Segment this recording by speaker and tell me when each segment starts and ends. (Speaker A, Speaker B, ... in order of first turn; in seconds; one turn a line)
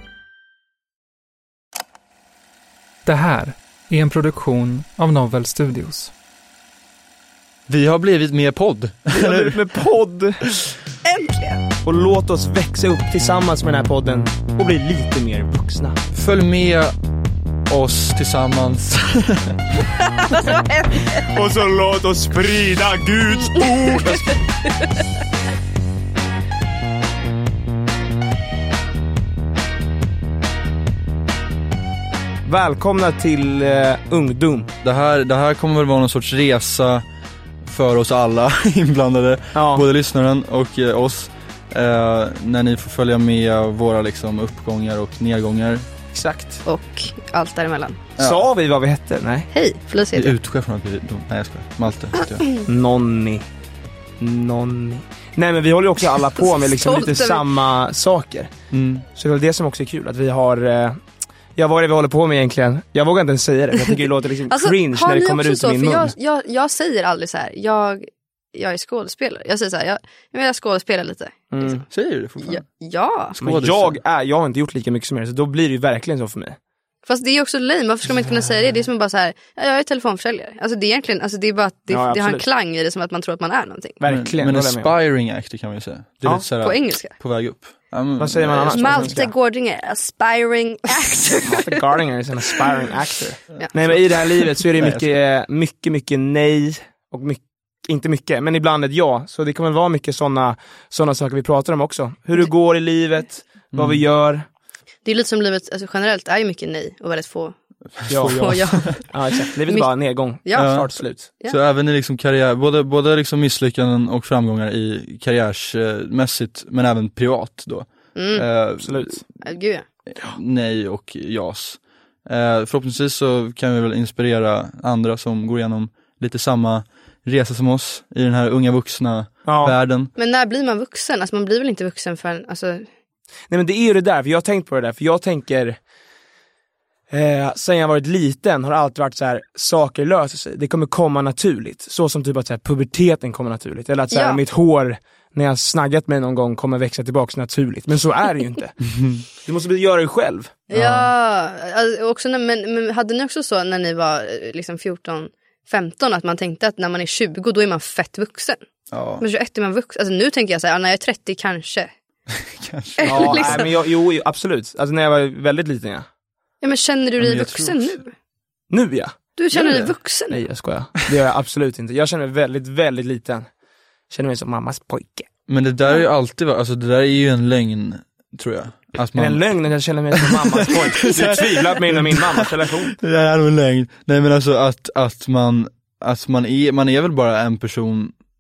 Speaker A: 3.0-6.1
Speaker B: 7.7-9.6
Speaker C: 9.1-10.4
Speaker D: 11.0-11.7
Speaker C: 11.8-16.0
Speaker B: 16.1-16.9
Speaker B: 17.7-19.6
Speaker D: 20.0-21.2
Speaker C: 21.3-24.4
Speaker C: 32.5-34.7
Speaker B: 34.8-37.1
Speaker B: 37.6-45.9
Speaker C: 39.5-39.9
Speaker C: 46.1-46.6
Speaker D: 46.6-48.1
Speaker B: 48.2-48.5
Speaker C: 48.2-49.5
Speaker D: 49.5-50.4
Speaker B: 50.1-52.4
Speaker C: 52.6-53.5
Speaker C: 54.2-58.5
Speaker D: 56.4-57.5
Speaker B: 58.7-59.1
Speaker C: 59.1-61.0
Speaker C: 61.5-66.2
Speaker D: 64.5-71.9
Speaker C: 71.5-71.8
Speaker B: 71.9-72.6
Speaker D: 72.4-73.4
Speaker B: 73.4-74.0
Speaker C: 73.4-76.6
Speaker D: 77.0-84.0
Speaker C: 81.9-82.5
Speaker C: 84.0-85.0
Speaker B: 84.0-89.2
Speaker D: 86.6-87.2
Speaker C: 88.2-89.3
Speaker D: 88.5-91.9
Speaker C: 91.5-104.5
Speaker B: 94.8-95.2
Speaker B: 103.7-104.0
Speaker D: 105.0-107.5
Speaker B: 108.0-109.1
Speaker C: 108.1-108.4
Speaker D: 108.3-109.0
Speaker C: 109.1-111.4
Speaker D: 109.7-111.6
Speaker B: 110.5-119.3
Speaker D: 118.1-118.5
Speaker C: 118.6-119.2
Speaker D: 119.4-119.9
Speaker B: 120.1-130.1
Speaker C: 129.4-129.8
Speaker D: 130.2-132.9
Speaker C: 133.5-135.8
Speaker C: 137.1-148.8
Speaker D: 144.1-144.4
Speaker B: 148.9-149.2
Speaker C: 149.4-150.6
Speaker D: 150.7-158.6
Speaker B: 150.7-151.1
Speaker B: 158.9-159.2
Speaker D: 159.2-161.9
Speaker B: 162.3-163.7
Speaker D: 163.0-163.7
Speaker C: 163.1-166.1
Speaker D: 166.6-168.1
Speaker B: 167.2-168.0
Speaker C: 168.7-169.2
Speaker D: 169.4-170.5
Speaker B: 169.5-170.0
Speaker C: 170.3-173.5
Speaker C: 174.1-175.3
Speaker B: 175.5-179.5
Speaker C: 179.2-183.0
Speaker B: 180.1-188.2